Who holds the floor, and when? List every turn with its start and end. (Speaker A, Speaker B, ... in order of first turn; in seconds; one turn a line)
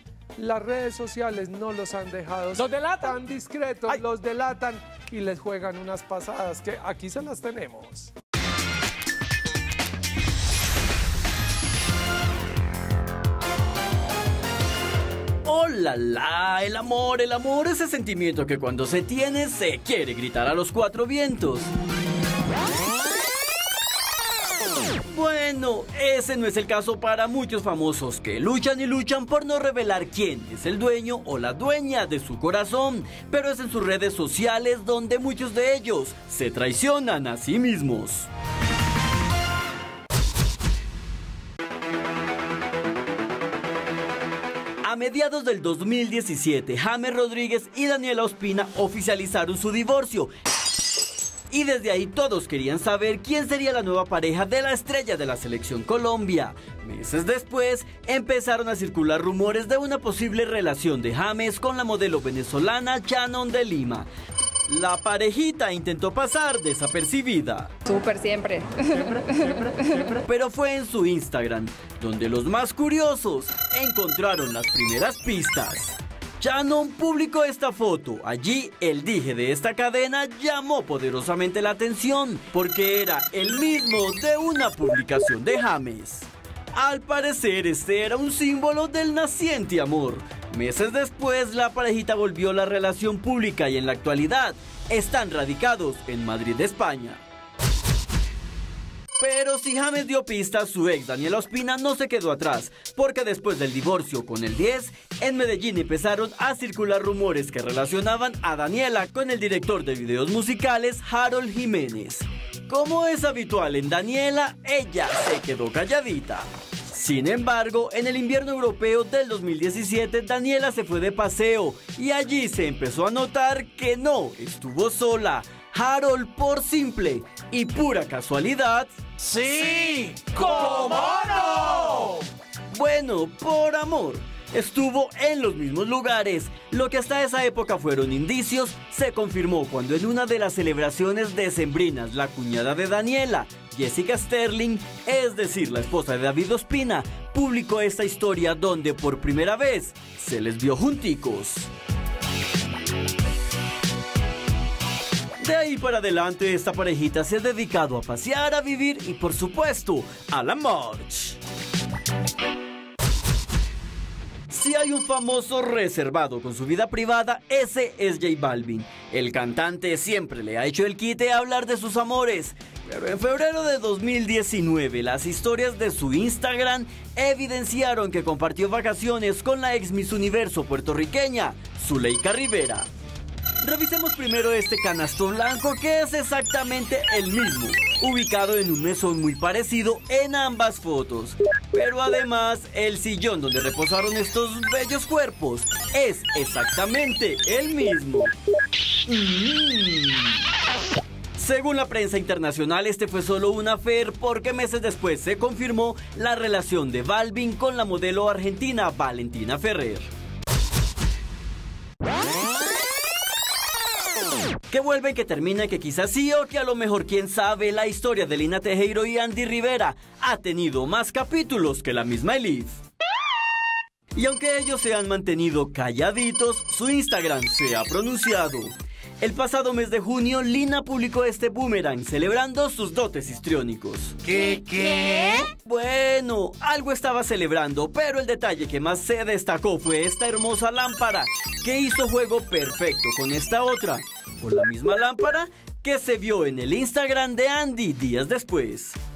Speaker A: 0.4-8.1
Speaker B: 15.4-21.7
Speaker B: 25.1-38.3
Speaker B: 44.8-50.3
Speaker B: 51.5-64.1
Speaker B: 64.7-67.8
Speaker C: 67.8-70.2
Speaker B: 70.2-97.2
Speaker B: 99.2-129.0
Speaker D: 129.7-130.1
Speaker A: 130.5-131.4
Speaker D: 130.7-132.1
Speaker B: 132.7-151.7
Speaker B: 155.4-161.4
Speaker B: 164.5-182.9
Speaker B: 183.6-198.3
Speaker B: 199.1-200.4
Speaker B: 201.3-210.1
Speaker B: 214.7-222.8
Speaker B: 224.2-234.6
Speaker D: 234.8-235.2
Speaker B: 235.4-249.0